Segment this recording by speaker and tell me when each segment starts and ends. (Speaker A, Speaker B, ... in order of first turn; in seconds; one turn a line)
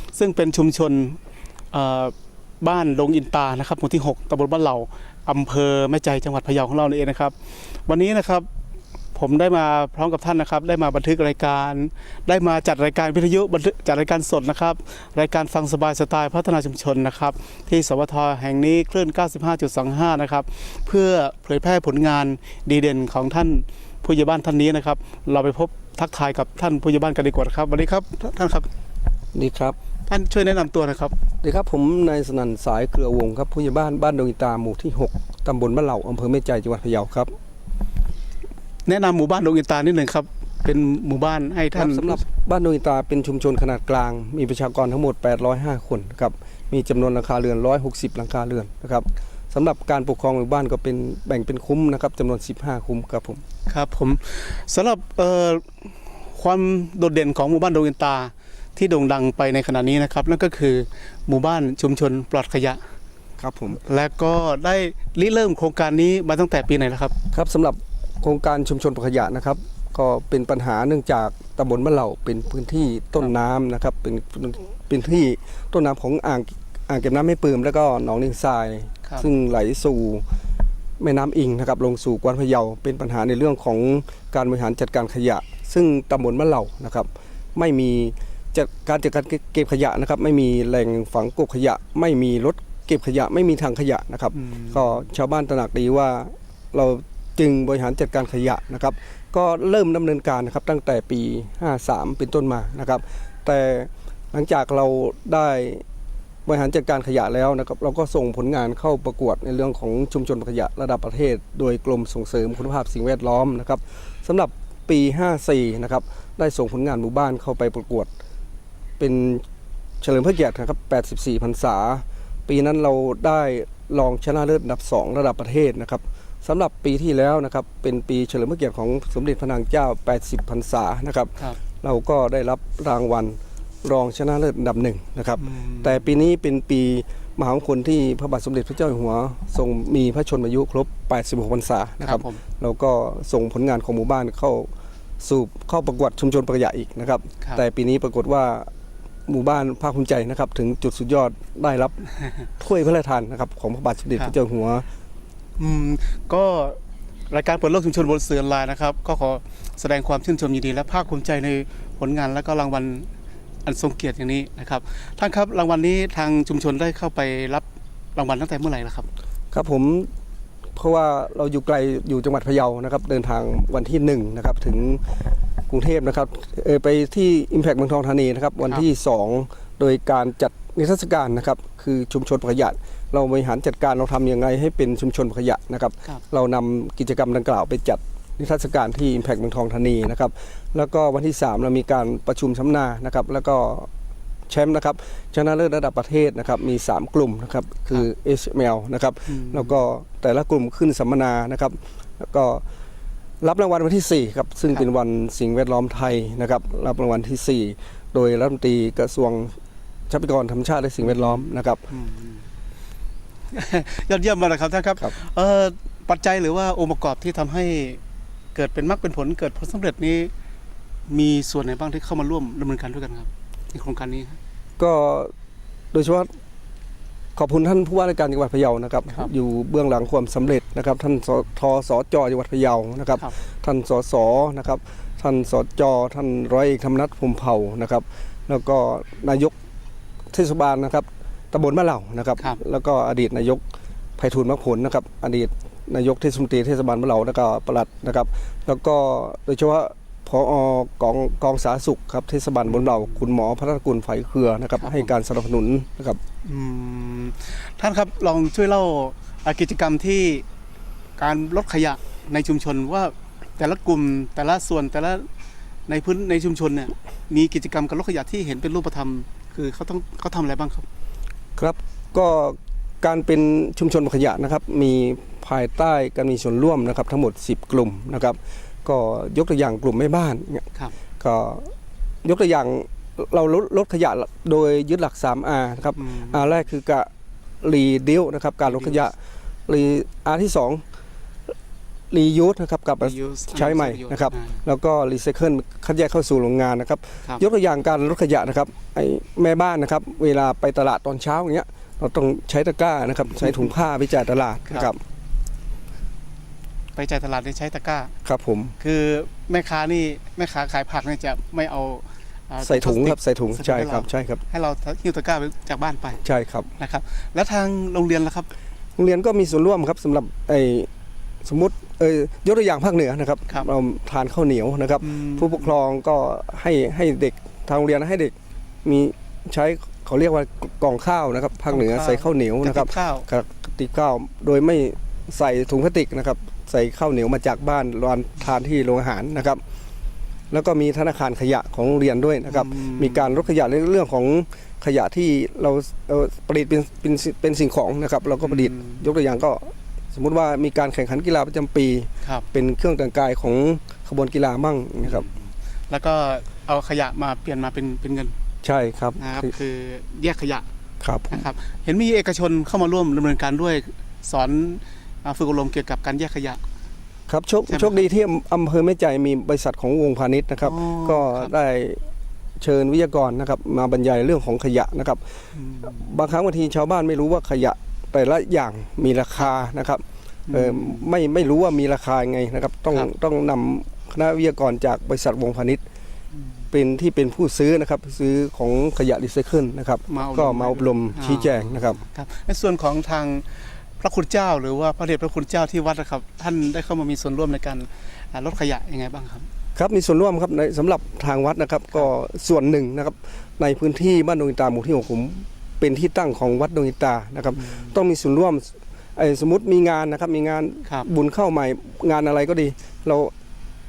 Speaker A: 0.1-1.2
Speaker A: 1.7-7.3
Speaker A: 7.8-8.5
Speaker A: 9.1-28.7
Speaker B: 29.3-29.8
Speaker A: 30.1-31.1
Speaker B: 31.4-37.3
Speaker A: 38.9-42.2
Speaker B: 41.7-53.4
Speaker A: 53.7-62.8
Speaker B: 63.4-63.8
Speaker A: 63.7-67.1
Speaker B: 67.3-80.2
Speaker B: 81.0-105.8
Speaker A: 94.3-94.9
Speaker B: 106.5-118.1
Speaker B: 119.0-119.4
Speaker B: 120.0-144.7
Speaker A: 135.4-136.1
Speaker A: 142.0-142.4
Speaker B: 145.2-148.7
Speaker B: 149.3-152.0
Speaker B: 152.6-154.8
Speaker A: 155.6-156.8
Speaker A: 157.3-163.1
Speaker A: 163.6-169.1
Speaker B: 169.5-170.1
Speaker B: 170.8-175.0
Speaker B: 175.7-193.9
Speaker B: 194.5-202.6
Speaker A: 199.3-199.7
Speaker B: 203.4-209.5
Speaker B: 210.1-211.8
Speaker A: 211.0-212.4
Speaker A: 213.5-218.0
Speaker A: 218.5-220.3
Speaker A: 221.1-224.4
Speaker B: 224.8-225.3
Speaker B: 225.9-226.3
Speaker B: 227.3-239.5
Speaker B: 240.3-243.6
Speaker B: 244.2-256.2
Speaker A: 252.7-252.9
Speaker A: 254.8-255.1
Speaker A: 256.4-260.4
Speaker A: 261.2-265.3
Speaker A: 265.9-270.9
Speaker B: 271.6-280.6
Speaker B: 281.2-281.7
Speaker B: 282.2-287.1
Speaker A: 285.9-286.5
Speaker B: 287.6-289.1
Speaker A: 288.6-289.0
Speaker B: 289.7-290.8
Speaker B: 292.1-305.0
Speaker A: 293.0-294.6
Speaker A: 306.9-308.1
Speaker B: 308.2-308.7
Speaker A: 308.8-316.2
Speaker B: 312.6-314.4
Speaker B: 316.2-316.7
Speaker A: 316.8-318.5
Speaker B: 319.0-320.9
Speaker B: 321.4-328.3
Speaker A: 325.0-325.7
Speaker B: 328.8-339.6
Speaker A: 331.7-333.2
Speaker B: 340.5-355.3
Speaker A: 342.5-343.3
Speaker A: 348.4-349.0
Speaker A: 355.0-355.3
Speaker A: 355.9-358.3
Speaker B: 358.6-359.5
Speaker A: 359.2-360.6
Speaker B: 361.0-361.4
Speaker A: 361.3-366.6
Speaker B: 367.3-372.0
Speaker A: 367.7-368.1
Speaker A: 370.6-371.5
Speaker B: 372.6-375.2
Speaker A: 375.5-376.0
Speaker B: 375.8-385.8
Speaker A: 380.5-381.1
Speaker B: 386.7-392.0
Speaker A: 390.1-399.5
Speaker B: 399.7-413.3
Speaker A: 407.6-407.9